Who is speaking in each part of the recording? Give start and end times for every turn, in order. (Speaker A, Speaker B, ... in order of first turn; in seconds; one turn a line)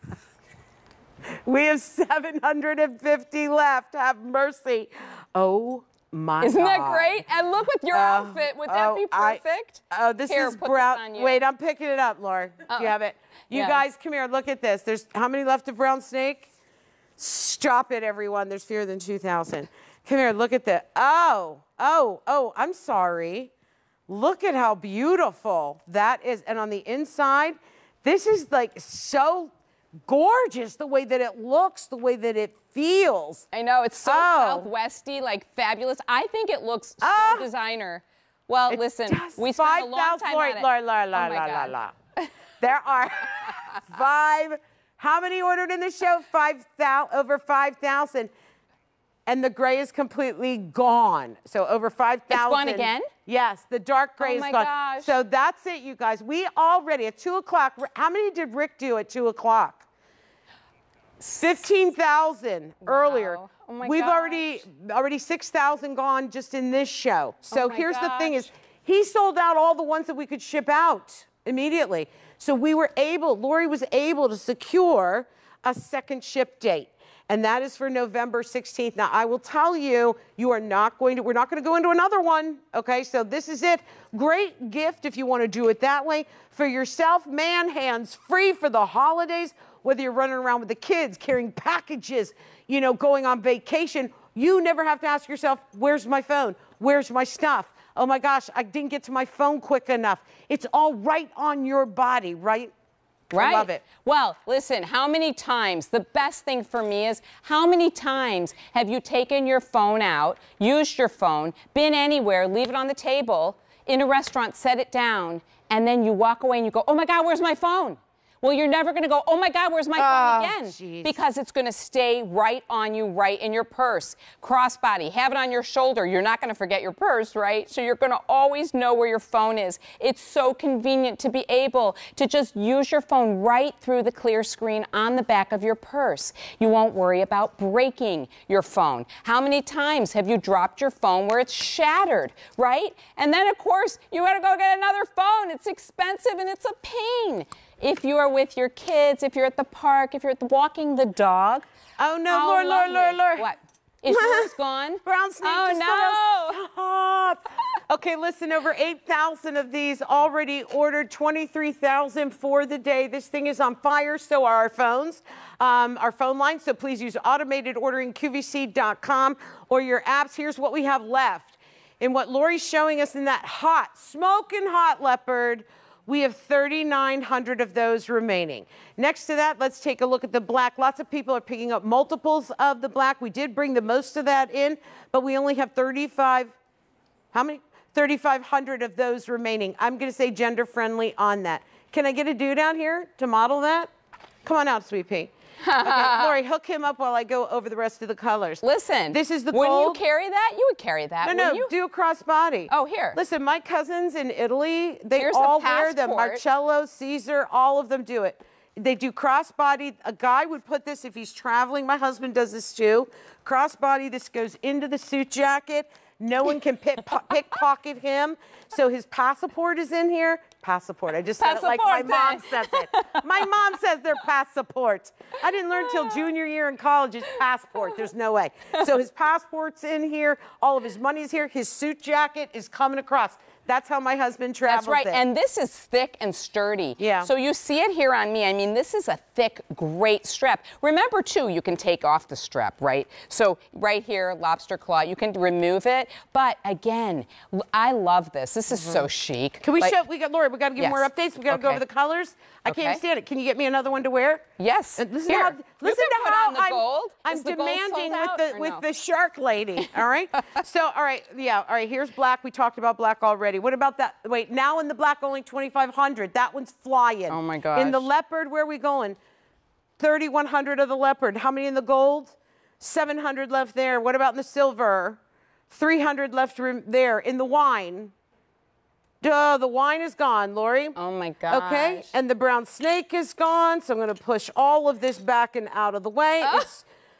Speaker A: 1.4-7.2
Speaker B: 6.4-11.4
Speaker A: 7.9-16.5
Speaker B: 12.7-12.9
Speaker B: 13.5-13.8
Speaker A: 17.2-23.5
Speaker A: 24.1-29.5
Speaker A: 30.1-33.5
Speaker B: 33.5-42.3
Speaker A: 34.0-34.7
Speaker A: 37.0-37.5
Speaker A: 38.7-41.9
Speaker A: 42.6-48.3
Speaker A: 49.3-59.8
Speaker B: 52.3-53.1
Speaker B: 54.2-55.1
Speaker A: 61.3-102.7
Speaker B: 62.8-64.6
Speaker B: 67.5-68.5
Speaker B: 103.3-151.7
Speaker A: 103.3-103.8
Speaker A: 120.0-121.2
Speaker A: 152.0-153.5
Speaker B: 152.3-156.6
Speaker A: 154.1-154.5
Speaker A: 155.0-186.5
Speaker A: 187.3-193.9
Speaker A: 194.4-200.0
Speaker B: 195.6-196.3
Speaker B: 198.6-201.7
Speaker A: 201.2-235.2
Speaker B: 202.7-203.2
Speaker B: 205.2-206.4
Speaker B: 221.4-223.5
Speaker B: 225.7-226.2
Speaker B: 234.7-249.9
Speaker A: 237.0-237.3
Speaker A: 248.7-249.0
Speaker A: 249.6-254.4
Speaker B: 250.8-251.8
Speaker B: 252.7-253.0
Speaker B: 254.6-258.8
Speaker A: 255.0-269.2
Speaker B: 267.3-268.1
Speaker A: 270.0-275.2
Speaker A: 275.7-278.1
Speaker A: 279.2-280.9
Speaker B: 280.9-282.1
Speaker A: 281.5-286.9
Speaker B: 286.4-286.7